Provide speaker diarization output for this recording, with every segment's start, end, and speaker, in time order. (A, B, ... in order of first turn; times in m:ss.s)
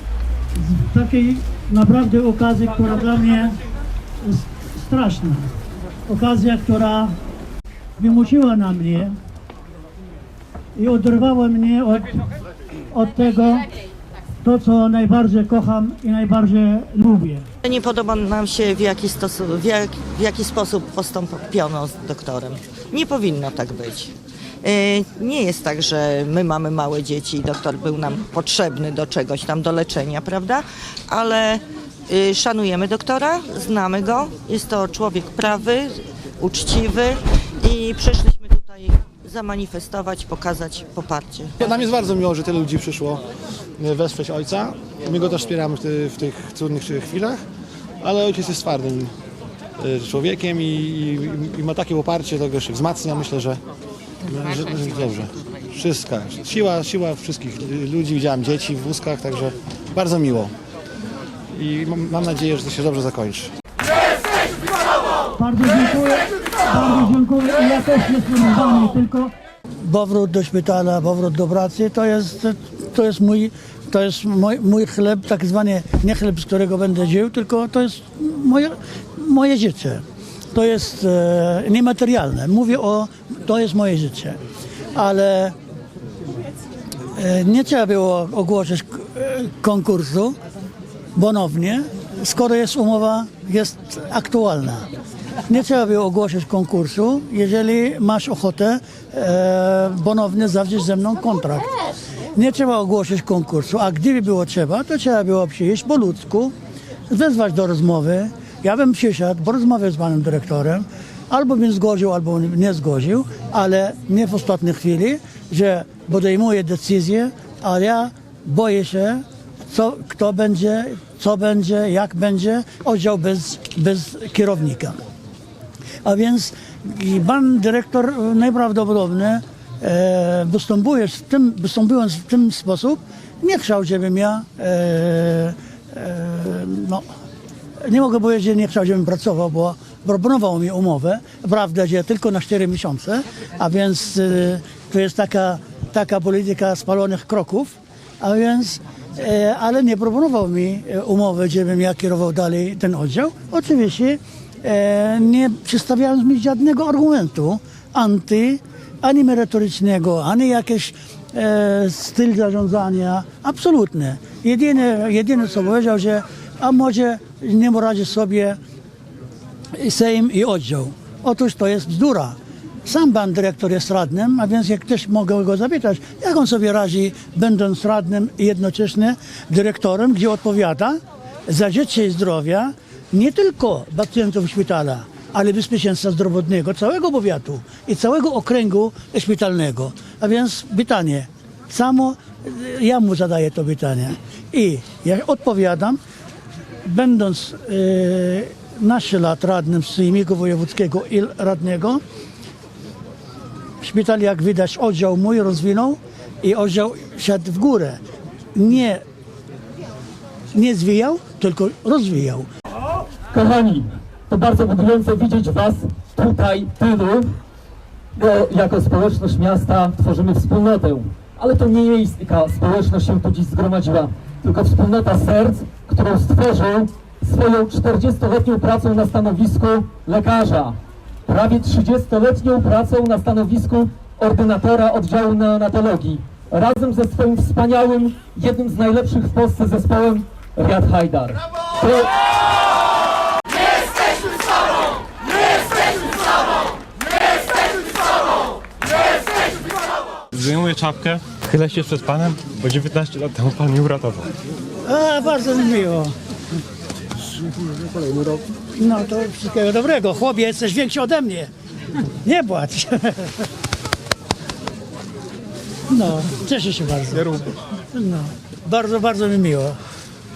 0:00.5-0:03.6 A
0:04.2-0:05.5 A
0:06.1-0:07.1 A
0:08.0-0:09.2 A
0:10.8-0:12.2 A
0:12.9-0:13.6 A
0:14.4-0:17.5 A
0:17.6-0:41.6 B
0:41.6-0:43.2 C
0:43.8-0:47.4 C
0:48.0-0:49.1 C
0:49.8-0:53.6 C
0:54.2-1:00.5 C
1:01.5-1:03.5 C
1:05.4-1:24.4 A
1:24.9-1:25.5 A
1:27.1-1:30.4 A
1:31.2-1:34.9 A
1:35.4-1:41.8 A
1:42.3-1:46.5 A
1:47.1-2:05.0 A
2:06.0-2:17.0 A
2:17.8-2:48.6 A
2:49.8-3:16.0 A
3:16.8-3:22.0 A
3:23.8-3:28.0 A
3:28.5-3:29.0 A
3:30.5-3:32.5 A
3:33.3-3:37.3 D
3:38.2-4:02.1 D
4:10.3-4:14.3 E
4:14.8-4:16.1 A
4:18.0-4:18.4 E
4:18.8-4:21.5 A
4:22.2-4:23.5 A
4:25.9-4:27.4 A
4:27.1-4:27.5 E
4:27.9-4:29.8 A